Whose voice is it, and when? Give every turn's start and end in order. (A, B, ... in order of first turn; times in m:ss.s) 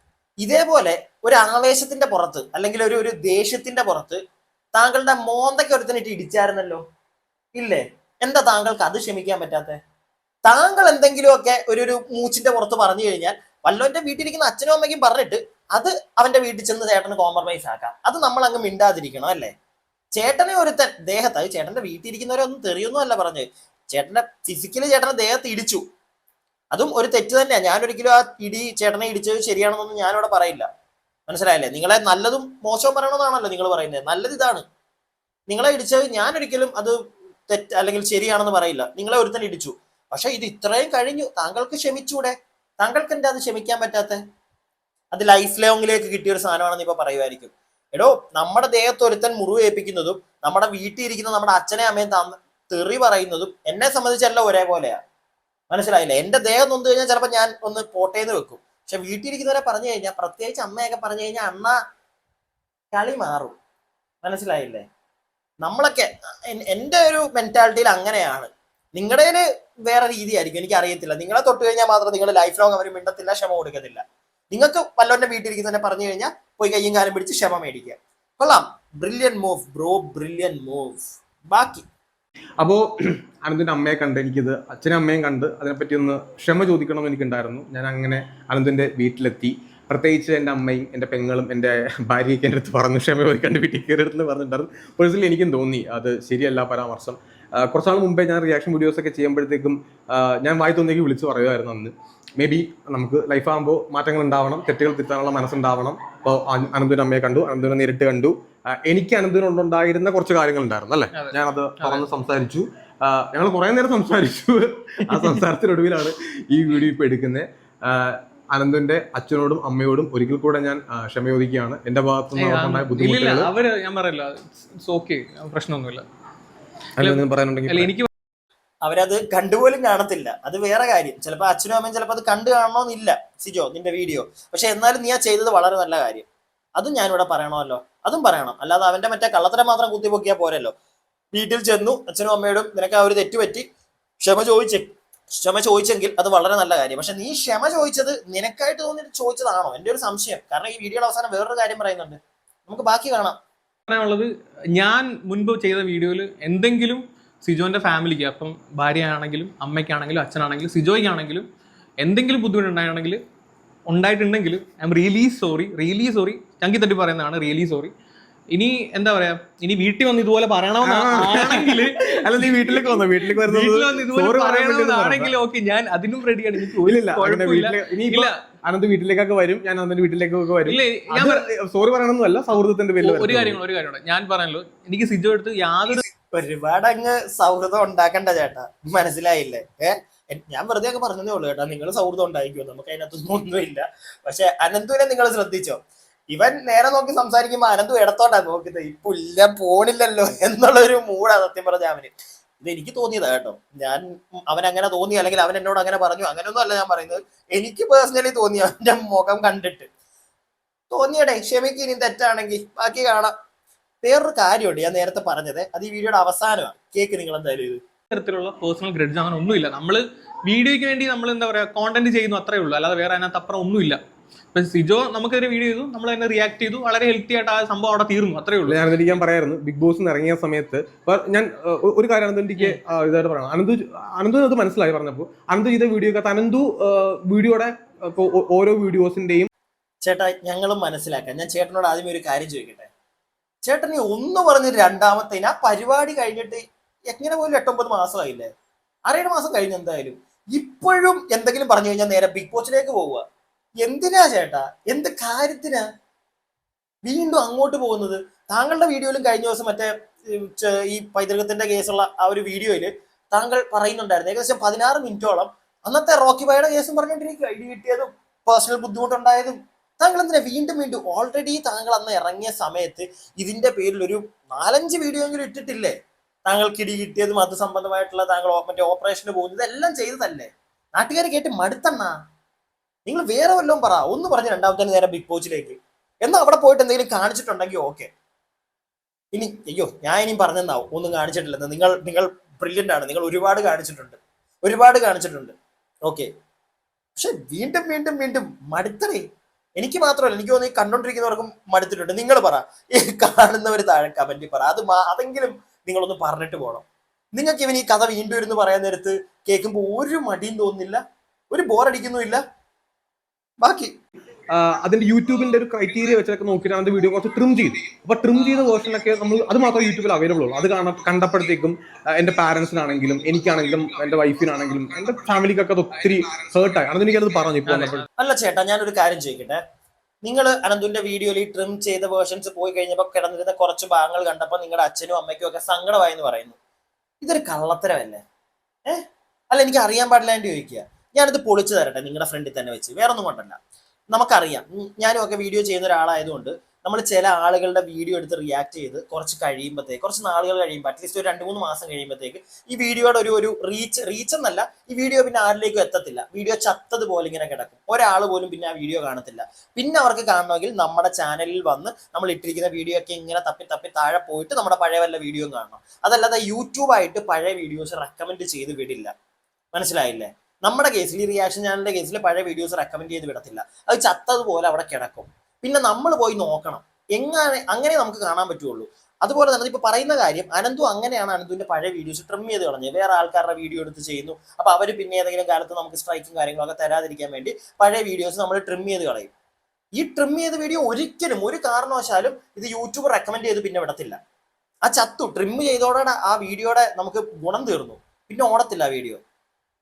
0:00.4-0:04.2 A
0:04.8-0:06.8 A
0:07.6-0:09.8 A
0:10.4-0:19.5 A
0:20.2-0:25.8 A
0:26.7-0:30.7 A
0:31.3-0:34.6 A
0:35.5-0:37.0 A
0:37.5-0:44.2 A
0:45.1-0:55.0 A
0:55.7-1:01.8 A
1:02.9-1:03.6 A
1:04.2-1:04.8 A
1:05.6-1:21.9 A
1:22.6-1:22.9 B
1:23.4-2:03.5 B
1:51.1-1:52.1 C
1:55.1-1:55.4 C
2:02.4-2:06.0 C
2:07.0-2:07.9 B
2:07.0-2:08.1 C
2:08.8-2:16.3 A
2:16.8-2:20.7 A
2:21.3-2:23.7 A
2:24.2-2:33.4 A
2:33.9-2:41.5 C
2:42.0-2:43.2 C
2:43.9-2:47.9 C
2:48.5-2:58.4 C
2:50.8-2:55.4 B
2:56.8-3:03.6 B
3:00.6-3:01.5 C
3:03.0-3:06.0 C
3:05.9-3:15.8 A
3:16.3-3:29.9 A
3:30.9-3:33.3 A
3:34.0-3:37.8 A
3:38.1-3:44.0 C
3:44.5-3:49.2 C
3:48.7-3:59.5 B
4:00.0-4:02.9 A
4:03.7-4:08.5 A
4:09.1-4:13.2 A
4:13.8-4:15.8 A
4:17.0-4:35.9 A
4:36.5-4:42.2 A
4:43.1-4:48.1 A
4:49.3-4:55.5 A
4:57.2-4:59.2 A
4:59.8-5:06.8 A
5:07.4-5:11.0 A
5:11.5-5:12.4 A
5:13.6-5:13.9 A
5:14.5-5:28.0 B
5:27.7-5:28.1 C
5:28.2-5:29.6 A
5:30.2-5:36.6 A
5:37.2-5:38.2 A
5:38.9-5:43.6 A
5:44.1-6:09.1 A
6:09.7-6:29.3 A
6:30.0-6:34.2 A
6:34.9-6:39.2 A